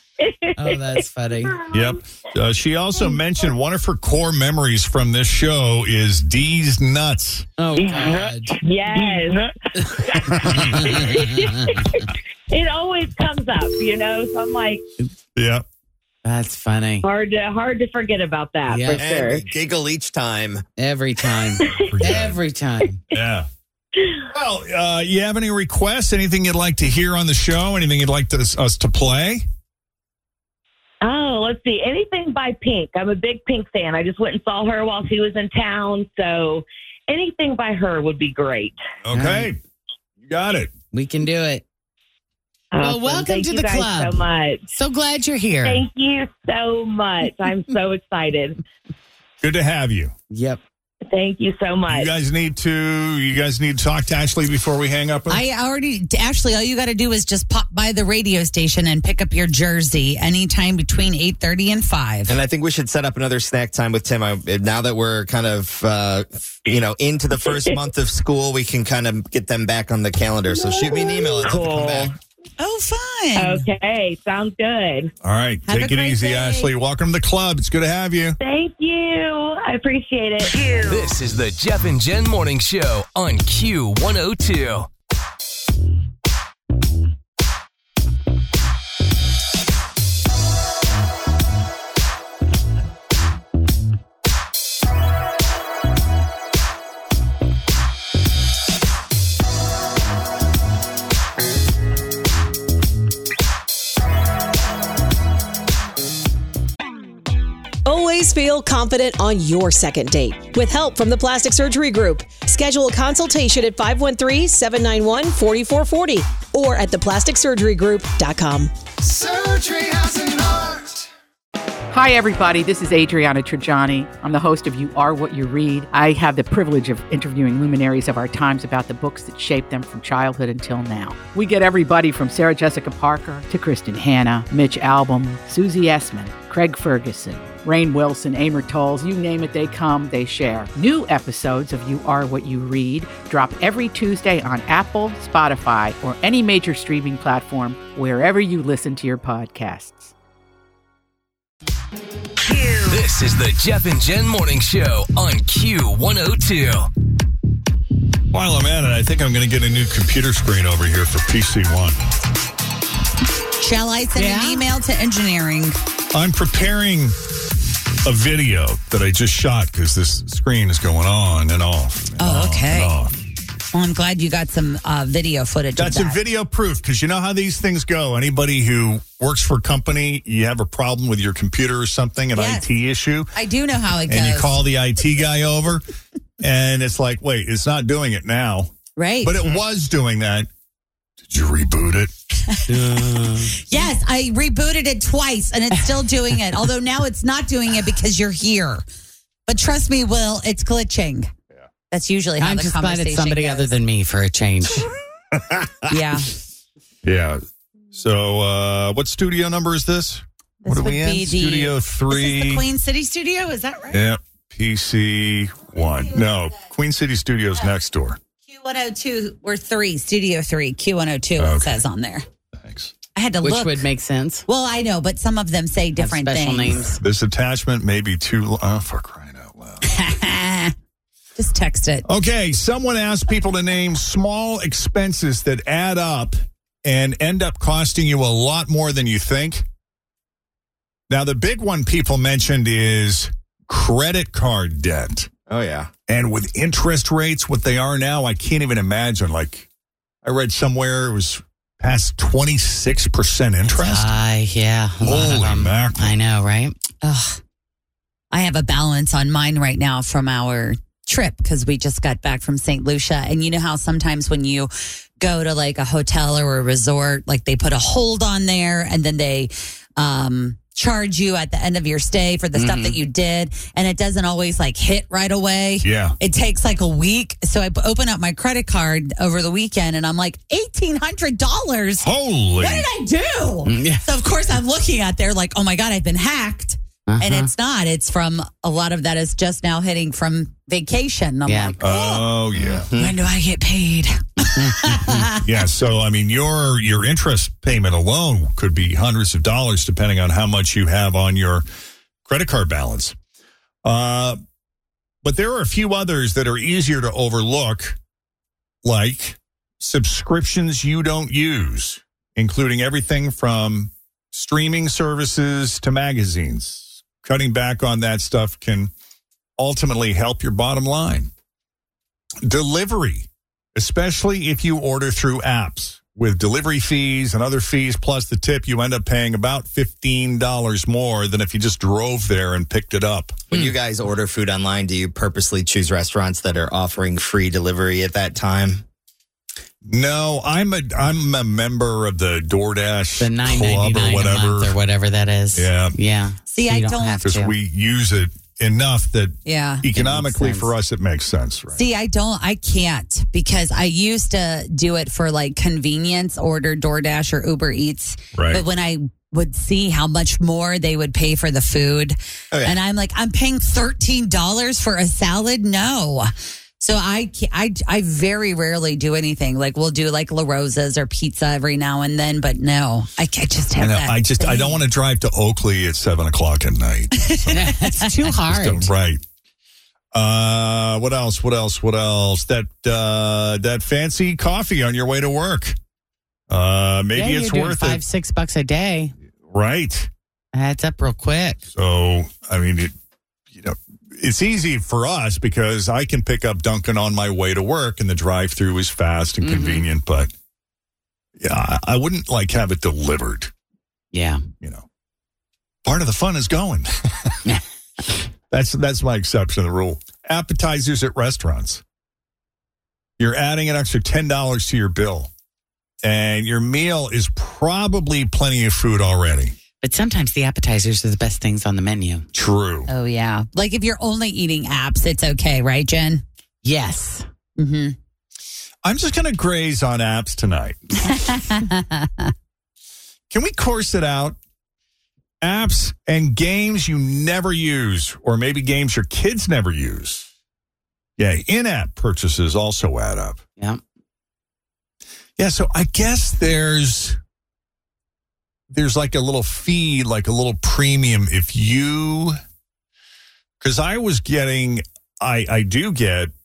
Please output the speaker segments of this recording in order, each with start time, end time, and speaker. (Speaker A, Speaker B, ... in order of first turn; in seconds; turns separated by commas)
Speaker A: 0.2-1.9, Speaker B: 0.6-1.6, Speaker C: 1.7-7.5, Speaker B: 7.6-8.6, Speaker A: 7.8-14.8, Speaker C: 10.3-10.8, Speaker B: 10.8-11.2, Speaker C: 15.4-15.7, Speaker B: 16.2-17.0, Speaker A: 17.0-19.4, Speaker B: 18.7-19.1, Speaker D: 18.9-20.6, Speaker B: 20.8-23.0, Speaker A: 21.3-21.9, Speaker C: 21.8-22.4, Speaker C: 23.1-23.5, Speaker C: 24.3-29.4, Speaker A: 31.0-38.8, Speaker C: 39.0-39.6, Speaker B: 39.1-39.5, Speaker C: 40.2-40.7, Speaker B: 40.9-41.6, Speaker A: 42.7-44.6, Speaker B: 42.8-45.8, Speaker A: 45.6-48.6, Speaker C: 49.4-50.1, Speaker B: 50.3-50.6, Speaker A: 51.1-52.1, Speaker C: 51.9-55.4, Speaker E: 55.3-62.4, Speaker D: 62.3-72.1, Speaker A: 67.5-67.8, Speaker A: 70.5-72.1, Speaker E: 72.6-73.7, Speaker A: 73.4-75.1, Speaker C: 75.2-78.4, Speaker E: 75.7-76.7, Speaker A: 78.4-80.5, Speaker F: 80.6-84.9, Speaker G: 107.9-118.7, Speaker C: 119.0-121.0, Speaker H: 121.9-150.1, Speaker F: 152.6-156.9, Speaker C: 158.3-162.0, Speaker E: 163.6-165.8, Speaker B: 164.2-164.7, Speaker C: 166.1-167.2, Speaker C: 168.1-173.1, Speaker E: 172.2-172.9, Speaker E: 173.7-176.2, Speaker C: 175.8-183.3, Speaker E: 182.3-182.7, Speaker E: 183.3-184.6, Speaker C: 184.1-185.8, Speaker C: 186.4-190.5, Speaker E: 189.0-189.3, Speaker C: 191.2-192.1, Speaker B: 192.7-193.5, Speaker E: 193.6-198.8, Speaker E: 199.5-201.3, Speaker E: 201.9-203.7, Speaker B: 202.4-204.8, Speaker C: 205.3-205.9, Speaker E: 205.9-206.3, Speaker C: 207.0-207.4, Speaker C: 207.9-212.7, Speaker E: 210.6-214.0, Speaker C: 213.9-218.2, Speaker E: 218.5-222.2, Speaker C: 221.4-221.8, Speaker C: 222.6-222.9, Speaker E: 223.2-223.9, Speaker B: 223.4-224.4, Speaker E: 224.5-227.0, Speaker B: 226.0-226.9, Speaker C: 226.9-229.8, Speaker E: 229.9-230.7, Speaker E: 231.4-232.1, Speaker C: 232.1-239.7, Speaker C: 241.1-245.3, Speaker D: 245.5-245.9, Speaker C: 246.1-249.7, Speaker C: 250.2-254.2, Speaker B: 253.6-256.8, Speaker C: 255.0-256.1, Speaker E: 257.0-257.4, Speaker E: 258.3-292.2, Speaker B: 272.6-273.0, Speaker C: 275.8-276.1, Speaker C: 282.0-282.9, Speaker B: 283.7-284.1, Speaker B: 287.1-287.5, Speaker B: 291.5-291.8, Speaker C: 291.8-292.9, Speaker D: 292.6-293.1, Speaker E: 293.0-295.3, Speaker B: 294.6-295.3, Speaker C: 295.4-301.7, Speaker C: 302.2-303.1, Speaker C: 303.8-304.4, Speaker C: 305.2-308.0, Speaker C: 308.8-318.9, Speaker C: 319.6-321.3, Speaker C: 322.4-333.5, Speaker D: 333.5-338.8, Speaker C: 339.8-344.8, Speaker B: 343.2-347.6, Speaker C: 345.6-346.0, Speaker E: 346.5-347.2, Speaker C: 347.2-351.8, Speaker E: 349.4-349.8, Speaker B: 349.9-350.8, Speaker E: 351.8-374.8, Speaker C: 358.3-358.6, Speaker D: 362.5-362.8, Speaker C: 373.8-377.8, Speaker E: 377.3-378.0, Speaker B: 377.5-378.9, Speaker C: 378.5-379.2, Speaker C: 380.1-385.8, Speaker C: 386.5-388.0, Speaker B: 387.1-389.1, Speaker C: 389.5-390.1, Speaker B: 390.5-391.6, Speaker C: 391.8-392.9, Speaker C: 393.5-400.3, Speaker B: 399.4-399.9, Speaker C: 401.4-403.5, Speaker B: 404.1-404.4, Speaker C: 405.9-407.4, Speaker C: 408.5-411.8, Speaker C: 413.2-415.3, Speaker C: 416.0-419.6, Speaker B: 419.8-422.2, Speaker C: 422.3-422.9, Speaker E: 422.9-426.2, Speaker B: 426.6-427.3, Speaker E: 427.6-428.0, Speaker C: 428.8-431.2, Speaker E: 431.2-432.3, Speaker C: 433.3-434.4, Speaker C: 435.4-440.3, Speaker C: 441.2-443.4, Speaker C: 445.4-447.2, Speaker C: 448.7-452.4, Speaker C: 453.6-456.3